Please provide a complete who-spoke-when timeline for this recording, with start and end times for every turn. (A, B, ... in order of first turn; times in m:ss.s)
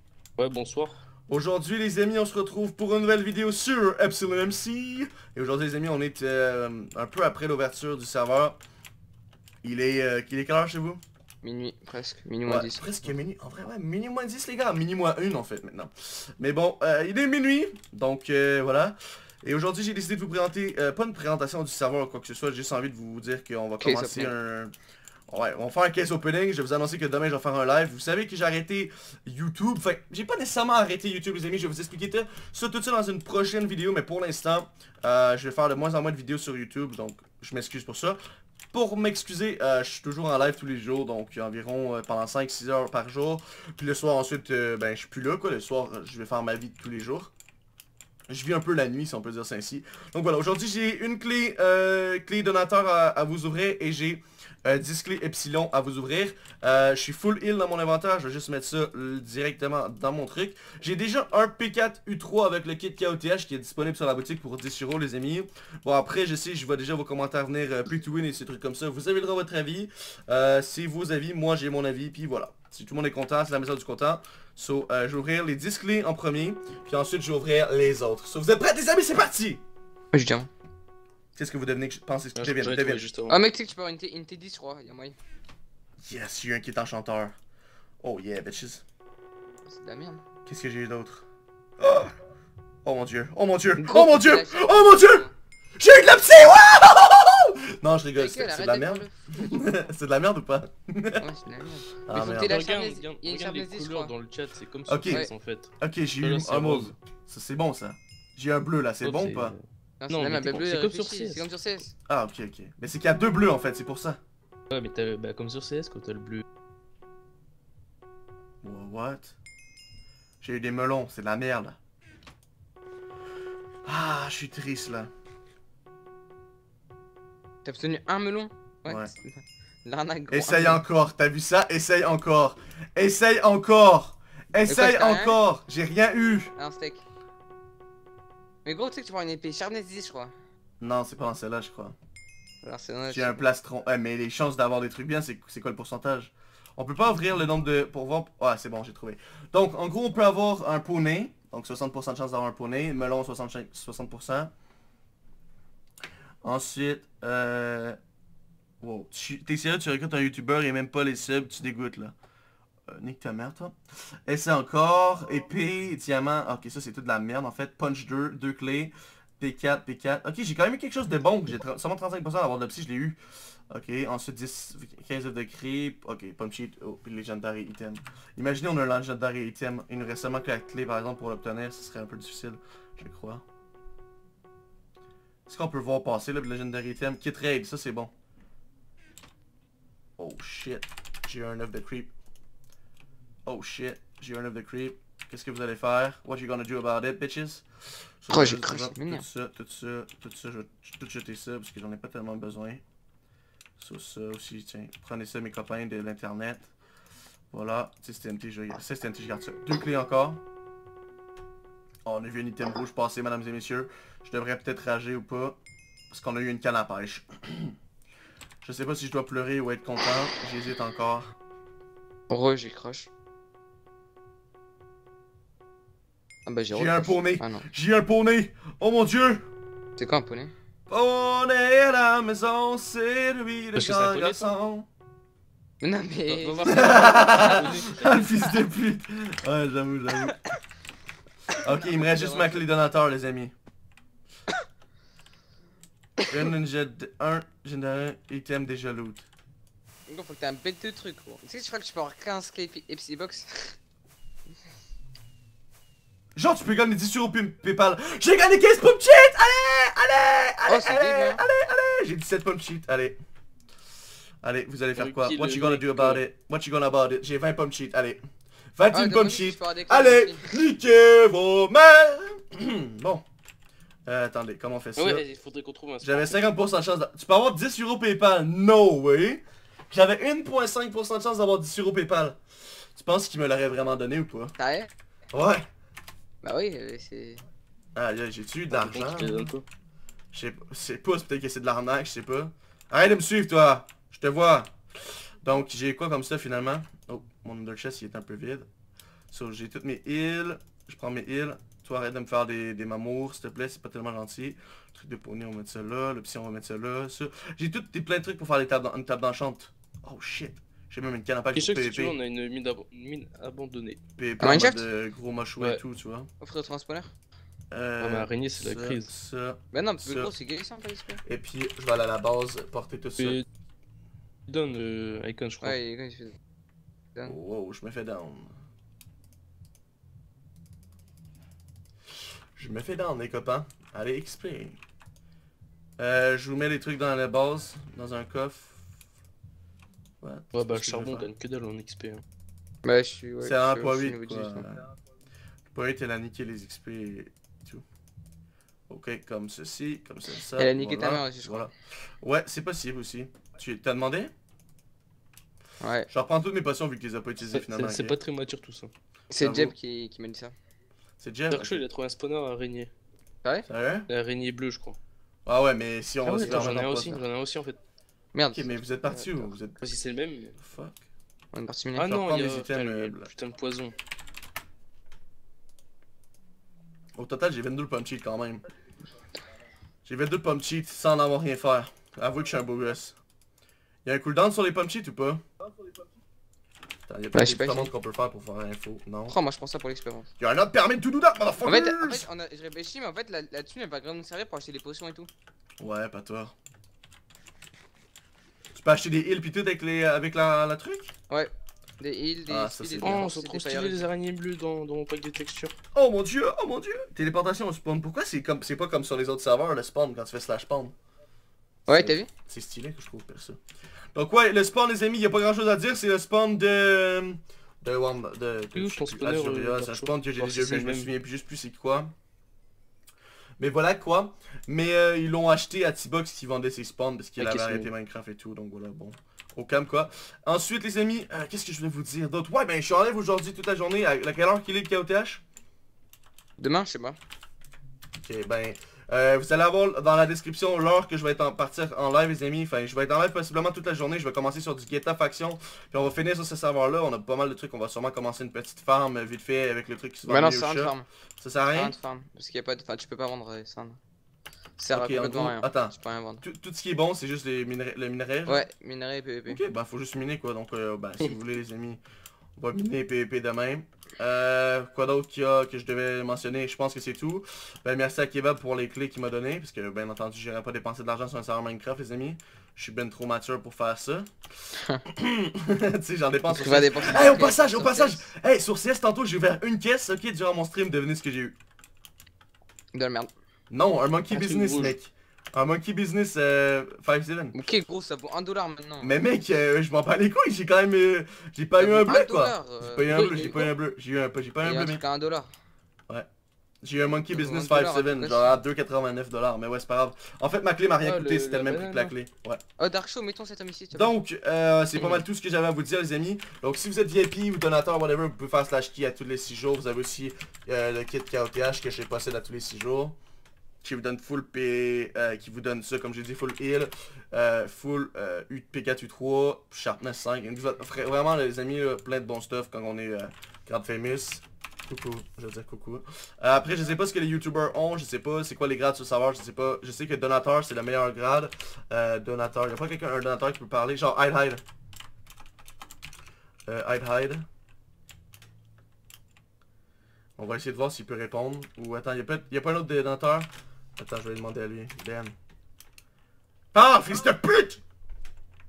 0:00.4-0:01.0 A
0:01.3-0:08.6 B
0:09.6-0:11.0 B
0:11.4-0:12.8 C
0:12.4-0:24.7 B
0:23.8-0:24.3 C
0:25.3-0:38.2 B
0:38.7-0:47.3 B
0:48.3-1:19.6 B
1:20.1-1:20.5 C
1:21.4-1:23.0 B
1:22.3-1:23.4 A
1:23.3-1:25.2 C
1:26.0-1:27.3 B
1:28.0-1:28.8 B
1:29.7-1:30.2 C
1:30.4-1:31.2 B
1:31.8-1:32.1 B
1:32.8-1:41.2 B
1:33.8-1:35.3 C
1:38.1-1:39.8 C
1:41.2-1:44.1 C
1:42.0-1:42.6 B
1:42.4-1:46.9 A
1:44.9-1:45.3 B
1:45.8-1:49.5 B
1:49.0-1:51.5 A
1:50.0-1:51.9 C
1:52.1-1:54.2 B
1:54.7-1:56.4 A
1:58.6-1:59.4 B
2:00.4-2:01.8 B
2:03.8-2:05.1 B
2:07.6-2:10.8 C
2:08.9-2:09.1 B
2:10.3-2:16.5 B
2:14.7-2:15.4 C
2:16.6-2:17.0 C
2:18.6-2:20.3 C
2:20.8-2:22.0 B
2:22.6-2:23.5 C
2:23.1-2:34.5 B
2:36.4-2:38.0 B
2:38.8-2:42.1 B
2:42.9-2:53.2 B
2:53.7-3:03.4 B
3:05.5-3:08.1 B
3:10.2-3:12.1 B
3:13.4-3:17.6 B
3:18.2-3:22.8 B
3:18.3-3:19.2 C
3:23.8-3:26.7 B
3:27.5-3:30.4 B
3:32.0-3:35.6 B
3:36.1-3:37.8 B
3:38.6-3:41.3 B
3:42.3-3:43.1 C
3:46.4-3:47.7 C
3:46.7-3:49.4 B
3:50.0-3:50.5 C
3:50.9-3:54.9 B
3:53.8-3:54.5 A
3:55.8-3:58.0 C
3:56.3-3:58.3 A
3:56.7-4:00.5 B
4:01.6-4:02.6 C
4:01.6-4:03.5 B
4:06.3-4:09.3 B
4:10.1-4:13.8 C
4:16.4-4:23.2 B
4:20.7-4:21.4 C
4:24.4-4:28.2 B
4:24.9-4:26.2 A
4:28.8-4:33.2 B
4:28.9-4:30.6 C
4:34.1-4:35.2 B
4:35.0-4:36.4 A
4:36.0-4:42.4 B
4:42.9-4:44.6 B
4:44.6-4:44.9 C
4:45.3-4:45.7 B
4:46.4-4:47.4 C
4:47.9-4:49.5 B
4:48.7-4:49.6 A
4:50.3-4:54.7 B
4:55.4-4:58.7 B
4:59.3-5:12.2 B
5:11.5-5:14.0 A
5:14.2-5:16.3 B
5:14.4-5:14.9 C
5:16.4-5:17.1 C
5:17.7-5:20.3 B
5:18.0-5:19.1 A
5:19.7-5:21.2 C
5:21.2-5:23.4 B
5:23.2-5:23.4 A
5:24.5-5:25.8 A
5:25.6-5:26.4 C
5:27.2-5:28.6 B
5:32.6-5:34.8 B
5:36.0-5:38.9 B
5:40.2-5:41.3 B
5:40.5-5:42.2 A
5:42.8-5:44.7 C
5:43.4-5:44.9 B
5:45.7-5:47.8 B
5:48.9-5:54.3 B
5:50.6-5:51.7 C
5:55.8-5:56.1 C
5:56.1-5:58.2 B
5:57.5-5:58.9 A
5:59.3-6:00.5 C
5:59.4-5:59.7 B
6:01.2-6:01.8 B
6:01.5-6:02.9 A
6:03.7-6:04.1 B
6:04.1-6:05.0 A
6:05.4-6:07.2 B
6:06.2-6:07.8 A
6:08.3-6:08.7 C
6:08.5-6:09.9 B
6:09.1-6:10.6 A
6:10.6-6:11.0 B
6:11.5-6:12.1 C
6:12.0-6:13.9 A
6:12.0-6:13.3 B
6:17.1-6:18.6 B
6:20.0-6:23.2 B
6:24.0-6:25.4 B
6:27.1-6:29.3 B
6:27.3-6:27.9 C
6:29.3-6:30.3 C
6:30.4-6:32.3 B
6:31.6-6:35.3 C
6:35.8-6:36.6 B
6:38.8-6:41.1 B
6:41.3-6:44.0 C
6:42.5-6:43.2 B
6:43.0-6:45.8 A
6:45.9-6:50.9 B
6:51.9-6:52.3 C
6:51.9-6:53.6 B
6:54.1-7:02.1 B
6:58.8-7:01.1 A
7:03.6-7:15.4 B
7:07.4-7:07.9 A
7:16.6-7:17.2 C
7:18.2-7:31.9 B
7:30.2-7:31.1 C
7:31.7-7:34.0 C
7:34.8-7:36.4 C
7:34.9-7:38.6 B
7:38.4-7:39.6 C
7:39.4-7:42.0 B
7:42.6-7:54.3 B
7:55.1-8:01.6 B
7:56.5-7:58.2 C
8:02.9-8:03.3 C
8:03.7-8:07.6 B
8:04.3-8:05.0 A
8:07.5-8:09.2 C
8:09.0-8:15.0 B
8:11.8-8:13.5 C
8:13.1-8:13.8 A
8:14.6-8:15.5 C
8:16.8-8:22.6 B
8:17.3-8:18.6 C
8:21.0-8:22.1 A
8:22.8-8:24.2 C
8:23.9-8:33.1 B
8:25.0-8:25.2 C
8:33.8-8:54.6 B
8:56.6-8:57.5 B
9:00.4-9:05.4 B
9:06.7-9:07.8 B